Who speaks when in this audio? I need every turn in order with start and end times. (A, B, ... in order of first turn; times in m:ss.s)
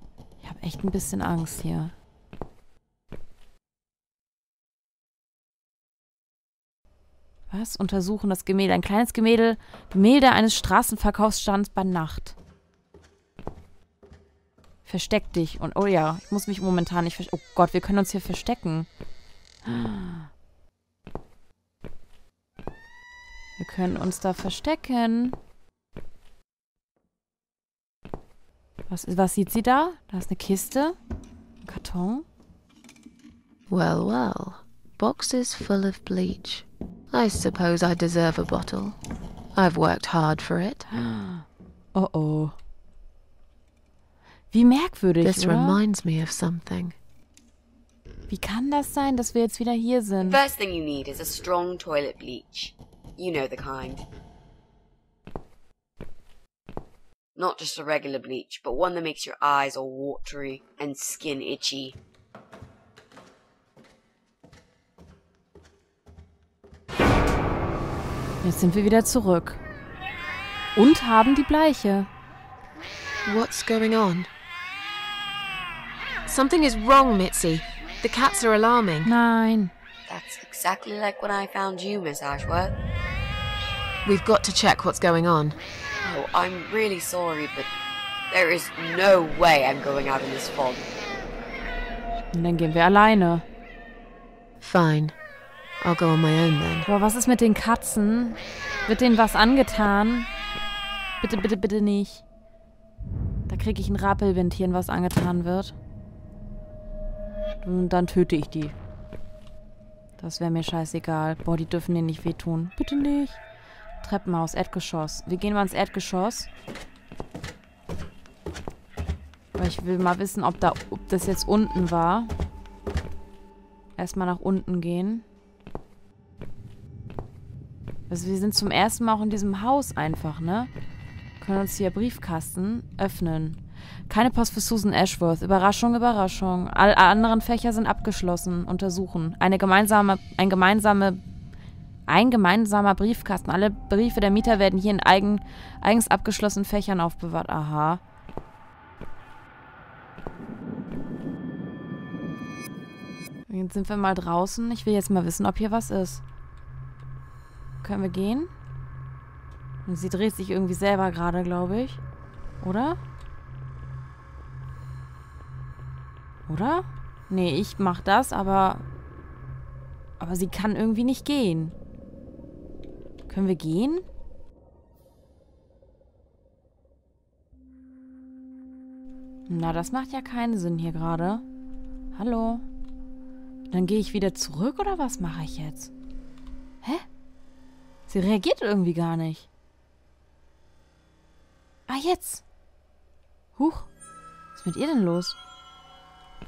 0:00.4-0:01.9 A
0:07.5-0:12.4 A
0:14.8-0:18.9 A
0:19.6-0:20.3 A
0:23.6-0:25.4 A
0:28.9-0:31.0 A
0:31.6-0:32.2 A
0:33.7-0:39.0 B
0:39.5-0:40.9 B
0:40.9-0:42.6 A
0:44.5-0:45.8 A
0:45.2-0:47.0 B
0:48.3-0:50.4 A
0:50.2-0:54.0 C
0:57.4-1:02.0 C
1:08.4-1:09.6 A
1:10.8-1:12.1 A
1:13.2-1:14.3 B
1:16.2-1:19.1 B
1:19.0-1:19.7 A
1:20.1-1:22.7 C
1:24.0-1:25.6 B
1:26.0-1:27.7 C
1:28.3-1:30.9 C
1:32.3-1:33.4 A
1:34.6-1:35.2 B
1:35.8-1:36.9 B
1:36.8-1:40.3 A
1:41.2-1:42.2 A
1:43.5-1:45.8 A
1:47.6-1:48.7 A
1:50.2-1:53.4 A
1:54.0-1:56.5 A
1:59.6-2:02.3 A
2:04.0-2:05.2 A
2:08.1-2:10.7 A
2:11.4-2:21.2 A
2:22.1-2:28.0 A
2:33.5-2:36.2 A
2:37.8-2:38.5 A
2:39.8-2:42.0 A
2:42.6-2:43.0 A
2:46.5-2:48.8 A
2:50.2-2:51.7 A
2:53.3-2:54.0 A
2:59.5-3:01.4 A
3:02.1-3:02.6 A
3:03.7-3:05.9 A
3:08.1-3:09.5 A
3:11.9-3:12.4 A
3:13.6-3:13.9 A
3:14.5-3:15.4 A